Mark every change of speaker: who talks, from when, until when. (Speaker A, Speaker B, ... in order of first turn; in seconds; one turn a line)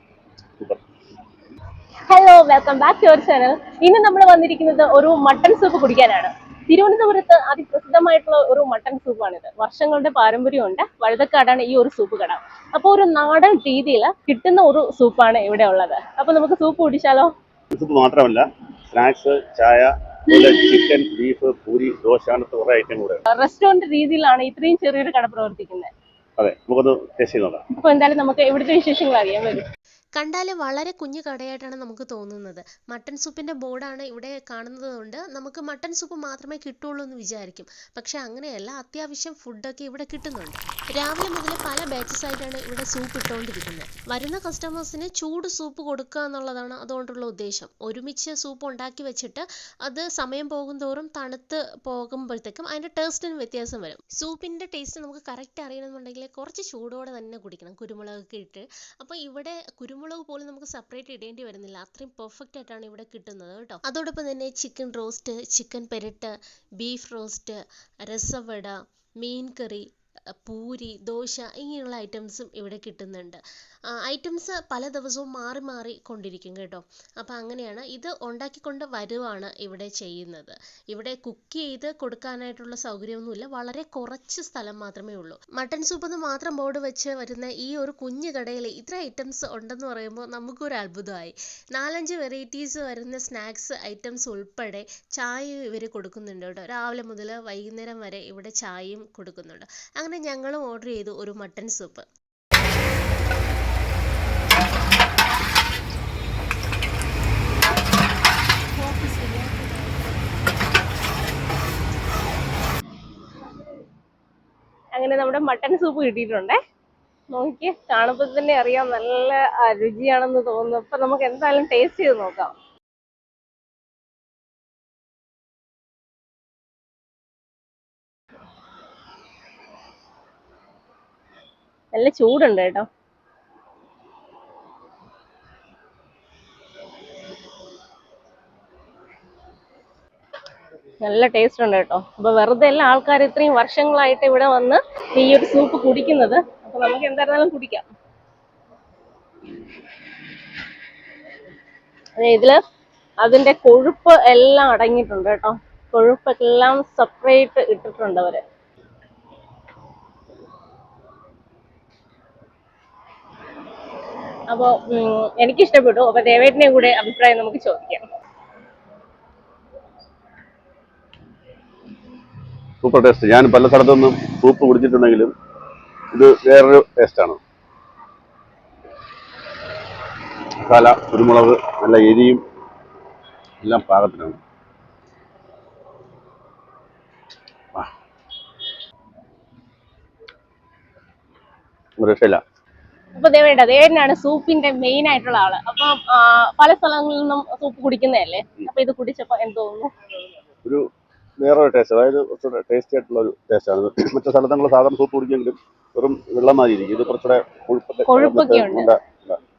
Speaker A: 2.1-17.3
Speaker B: 17.7-23.2
Speaker A: 23.3-25.9
Speaker B: 26.4-27.6
Speaker A: 27.7-29.7
Speaker C: 30.2-69.9
Speaker C: 70.4-102.1
Speaker C: 108.8-110.1
Speaker A: 115.0-116.6
Speaker A: 117.3-122.5
Speaker A: 131.9-132.9
Speaker A: 141.0-147.9
Speaker A: 152.2-152.6
Speaker A: 153.2-158.4
Speaker A: 164.5-168.1
Speaker B: 172.8-175.3
Speaker B: 176.1-177.4
Speaker B: 180.7-182.4
Speaker B: 183.6-184.4
Speaker B: 192.0-192.4
Speaker A: 193.2-199.9
Speaker B: 201.4-209.4
Speaker A: 208.1-208.9